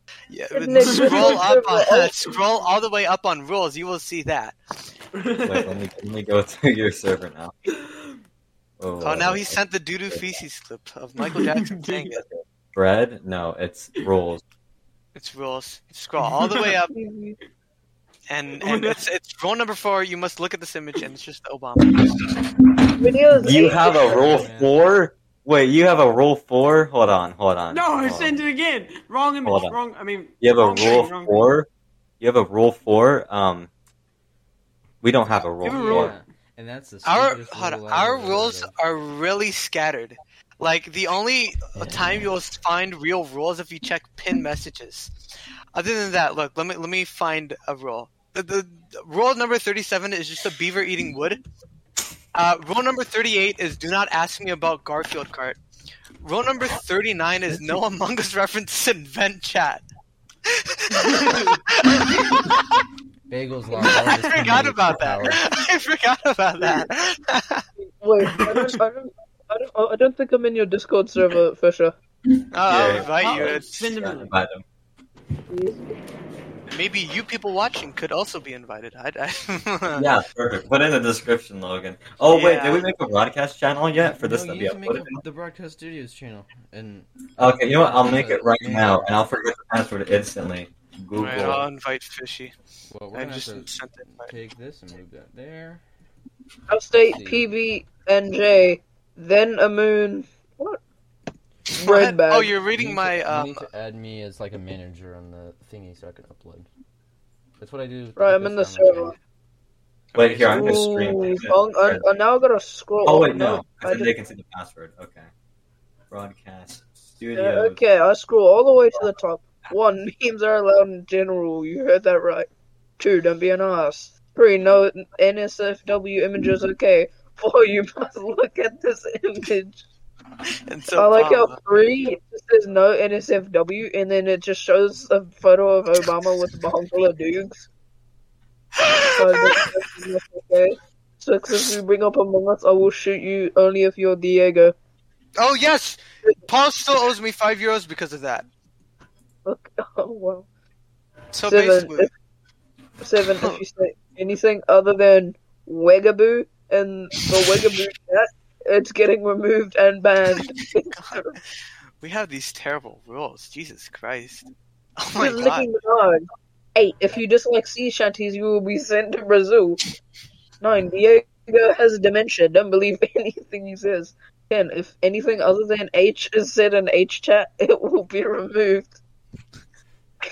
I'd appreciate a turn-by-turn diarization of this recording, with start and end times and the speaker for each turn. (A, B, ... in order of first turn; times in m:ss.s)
0:00.3-0:04.6 A
0:00.5-0:02.2 B
0:00.8-0:01.4 C
0:05.1-0:05.8 C
0:05.4-0:07.6 D
0:07.8-0:08.1 C
0:08.8-0:09.6 D
0:09.0-0:12.2 A
0:11.2-0:12.1 C
0:12.3-0:14.4 D
0:15.2-0:16.9 A
0:16.2-0:16.6 C
0:16.9-0:17.4 B
0:18.3-0:22.1 A
0:18.6-0:19.0 C
0:23.0-0:24.3 B
0:23.4-0:28.4 D
0:24.0-0:24.7 E
0:27.7-0:31.5 C
0:29.4-0:29.8 D
0:30.4-0:31.7 D
0:32.2-0:33.7 D
0:35.0-0:36.1 D
0:35.6-0:36.2 C
0:35.7-0:38.7 E
0:37.0-0:45.1 A
0:41.8-0:42.3 E
0:45.7-0:51.4 A
0:52.3-0:55.6 A
0:56.2-0:59.8 A
1:00.5-1:02.7 A
1:01.1-1:01.6 C
1:03.3-1:05.4 E
1:03.8-1:07.6 A
1:07.8-1:12.0 B
1:12.5-1:13.9 A
1:12.6-1:14.6 D
1:13.0-1:14.4 C
1:15.5-1:15.9 B
1:16.7-1:20.1 A
1:20.0-1:25.2 D
1:22.3-1:22.8 A
1:24.0-1:29.1 E
1:27.4-1:31.6 D
1:31.2-1:32.5 A
1:32.9-1:35.8 E
1:33.1-1:34.3 A
1:36.7-1:40.8 B
1:36.9-1:37.5 E
1:41.8-1:42.5 B
1:41.8-1:43.6 A
1:42.7-1:46.7 E
1:47.6-1:49.2 E
1:48.2-1:49.2 B
1:50.1-1:50.8 A
1:50.1-1:52.1 D
1:50.5-1:54.1 B
1:53.0-1:55.3 D
1:56.1-1:57.8 D
1:57.4-2:02.5 B
2:03.0-2:09.8 B
2:10.7-2:11.6 A
2:11.0-2:17.7 B
2:18.8-2:19.7 A
2:19.2-2:24.8 B
2:25.4-2:28.5 A
2:29.4-2:30.5 B
2:31.3-2:32.1 A
2:31.5-2:32.1 B
2:33.0-2:41.4 B
2:40.9-2:41.2 A
2:42.0-2:44.5 A
2:45.0-2:45.7 A
2:45.2-2:49.8 B
2:50.6-2:59.0 B